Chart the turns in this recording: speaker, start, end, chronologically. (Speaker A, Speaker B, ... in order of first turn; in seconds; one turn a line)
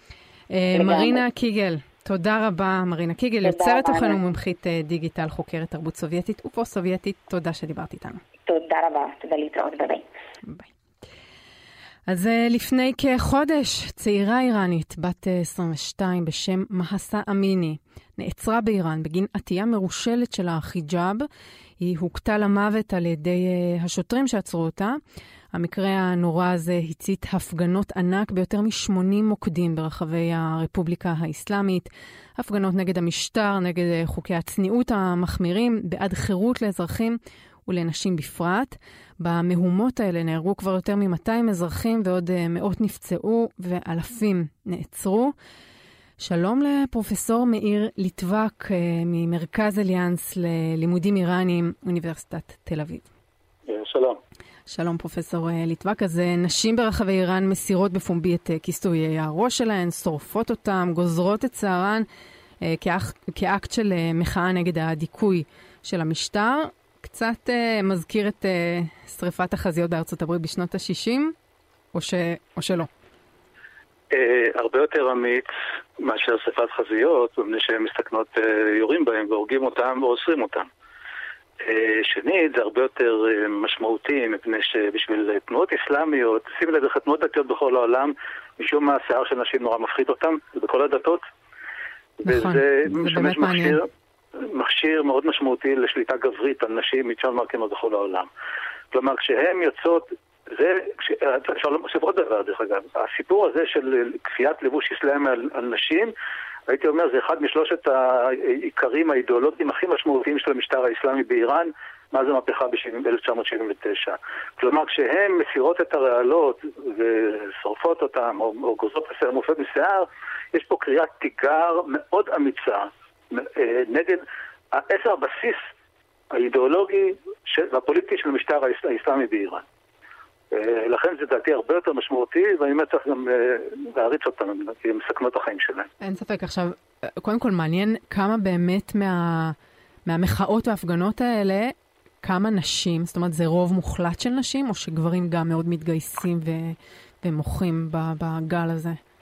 Speaker A: 0.5-8.2
Speaker B: 0.7-1.2
Speaker B: 3.4-4.2
Speaker B: 8.5-10.1
Speaker A: 12.1-21.3
Speaker A: 21.8-25.0
Speaker A: 25.5-45.3
Speaker A: 46.2-53.0
Speaker C: 53.7-54.2
Speaker A: 54.7-62.0
Speaker A: 62.6-71.3
Speaker A: 71.9-72.9
Speaker C: 74.1-75.5
Speaker C: 76.0-80.7
Speaker C: 81.6-91.2
Speaker C: 92.2-98.3
Speaker A: 92.2-93.8
Speaker C: 98.9-106.1
Speaker C: 106.7-125.7
Speaker C: 126.3-129.6
Speaker C: 130.5-135.9
Speaker A: 136.0-149.0